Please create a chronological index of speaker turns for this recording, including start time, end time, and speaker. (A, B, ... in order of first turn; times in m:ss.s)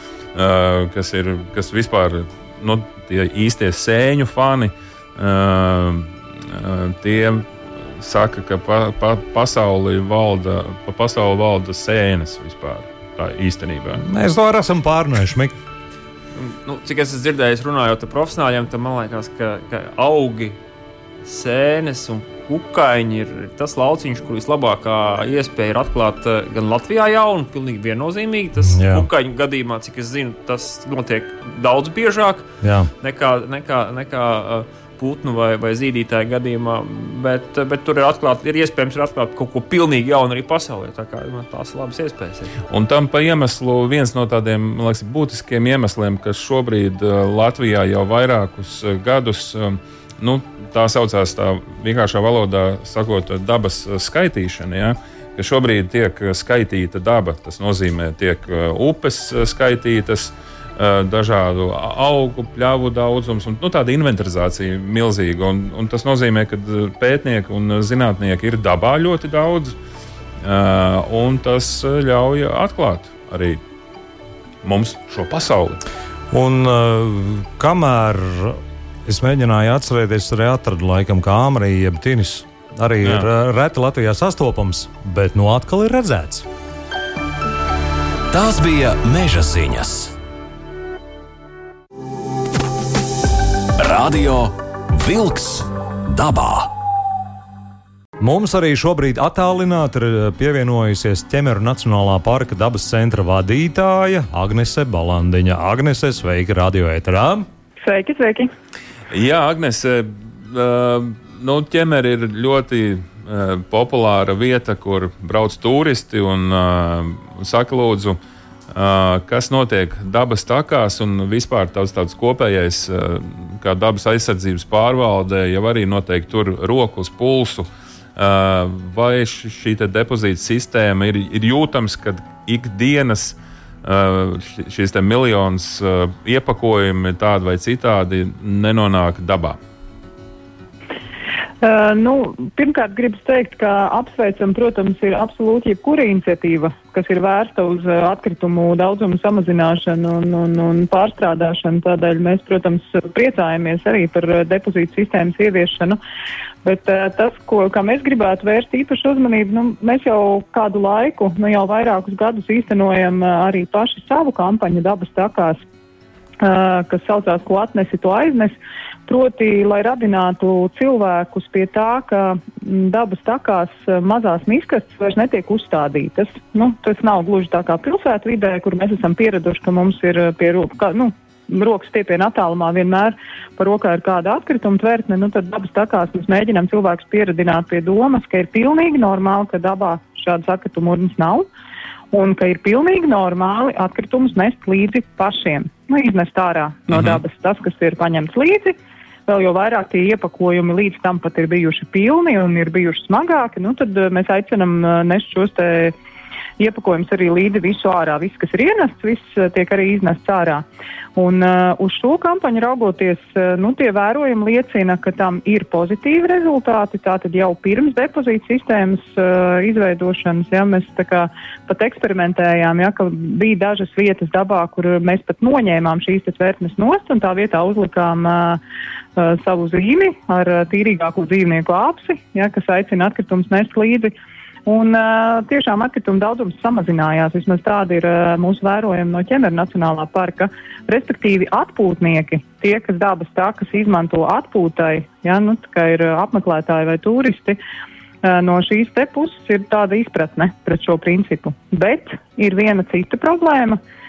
0:00.3-0:14.0 A
0:14.0-0:15.5 B
0:16.4-0:20.6 C
0:21.2-0:32.5 C
0:28.7-0:29.1 B
0:32.6-0:32.9 B
0:33.0-0:42.5 C
0:42.7-1:09.8 A
1:10.4-1:13.6 A
1:14.6-1:15.8 A
1:16.3-1:26.5 B
1:23.0-1:23.3 A
1:28.3-1:30.1 D
1:33.8-1:36.7 D
1:38.2-1:47.5 B
1:47.8-1:48.5 E
1:49.1-1:58.2 A
1:58.7-2:19.6 A
2:21.6-2:36.0 E
2:36.6-2:45.6 E
2:46.4-2:48.5 E
2:49.1-3:11.4 E
3:12.1-3:18.8 E
3:16.9-3:17.2 A
3:19.3-3:25.9 E
3:26.6-3:30.6 E
3:31.2-3:48.6 E
3:49.2-3:54.1 E
3:54.6-4:07.6 E
4:08.2-4:13.8 E